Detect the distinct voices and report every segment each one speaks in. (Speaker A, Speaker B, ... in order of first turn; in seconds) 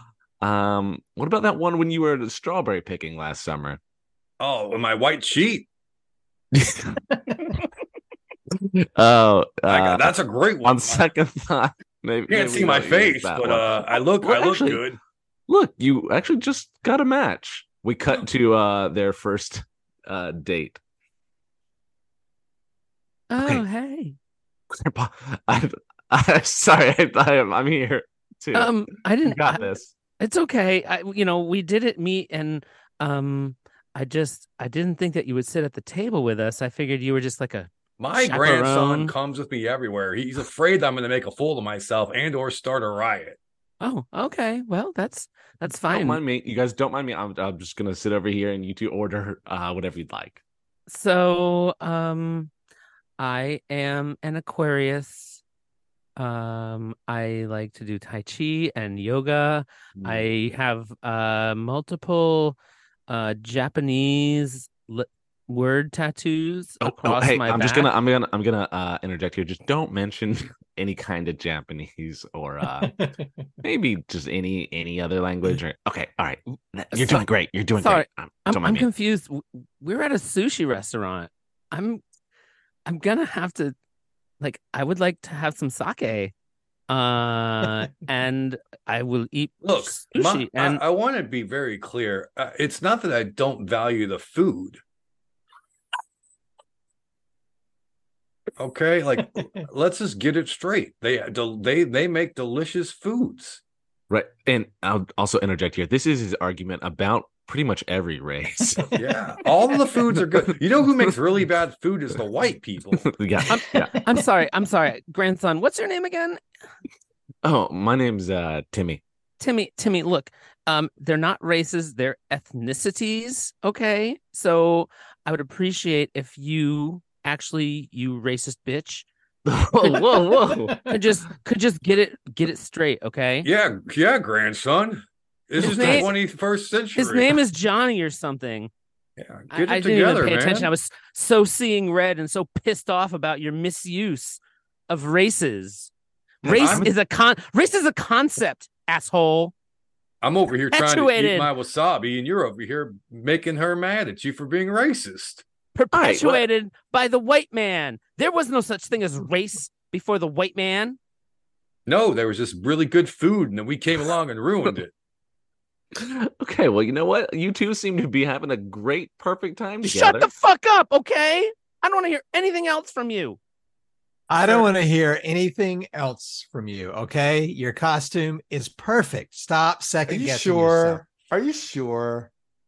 Speaker A: 0.4-3.8, 6.5-7.0, 8.5-14.8, 15.5-20.8, 24.7-29.9, 45.9-50.4, 60.0-60.2, 66.8-73.0, 73.6-78.9, 104.1-109.0, 113.0-114.0, 117.4-119.0, 129.4-130.9, 146.4-146.9, 155.9-156.4, 165.9-170.3
Speaker B: 4.4-5.7, 9.7-11.1, 12.3-15.0, 38.0-43.4, 89.6-94.8, 98.6-103.6, 108.9-113.1, 133.4-137.4, 139.2-140.7, 146.5-146.9, 150.2-155.4, 161.9-164.9
Speaker C: 23.3-24.1, 28.5-39.1, 43.8-46.2, 50.9-52.5, 53.2-55.4, 56.2-62.6, 63.1-67.9, 76.9-77.2, 77.8-82.0, 82.8-83.8, 84.4-86.3, 86.9-90.8, 113.5-116.4, 119.4-129.1, 130.9-133.5, 135.6-136.1, 136.9-138.7, 139.5-145.9, 146.4-149.5, 150.7-151.5, 155.7-161.0, 169.8-173.4
Speaker D: 72.8-73.3, 174.3-181.0
Speaker E: 180.1-182.3